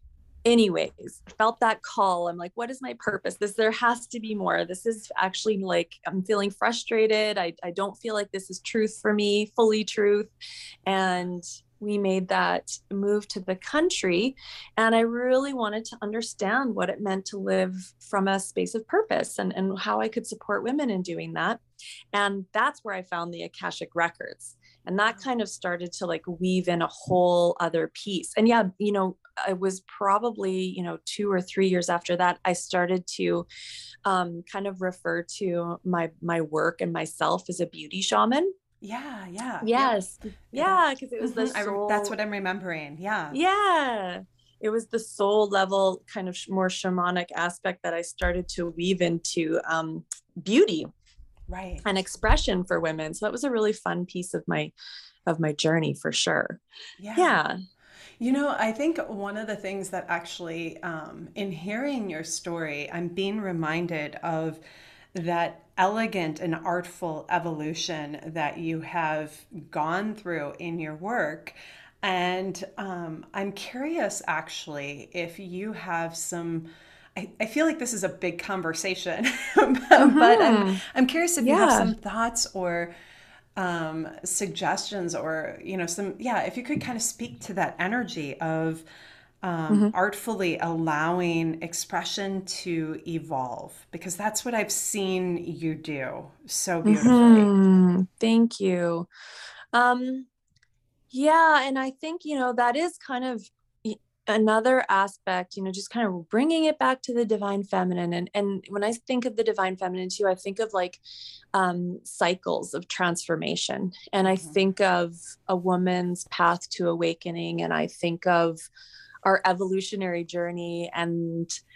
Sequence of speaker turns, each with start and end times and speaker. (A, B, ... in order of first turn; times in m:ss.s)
0:00.5-0:10.3 A
0:10.9-0:21.6 A
0:10.9-0:11.2 B
0:22.1-0:33.5 A
0:34.0-0:38.5 A
0:38.8-0:43.4 B
0:39.6-0:42.1 A
0:43.3-0:50.9 A
0:51.5-0:51.9 B
0:51.8-0:54.7 A
0:55.3-0:56.6 A
0:57.0-0:57.4 B
0:57.2-0:57.6 A
0:58.2-1:04.6 B
1:05.1-1:22.9 B
1:20.0-1:20.8 A
1:21.4-1:21.9 A
1:23.6-1:28.8 B
1:29.4-1:37.5 B
1:36.8-1:39.1 A
1:39.7-1:40.3 A
1:41.1-1:51.0 A
1:51.5-1:58.7 A
1:54.2-1:54.6 B
1:59.2-2:01.6 A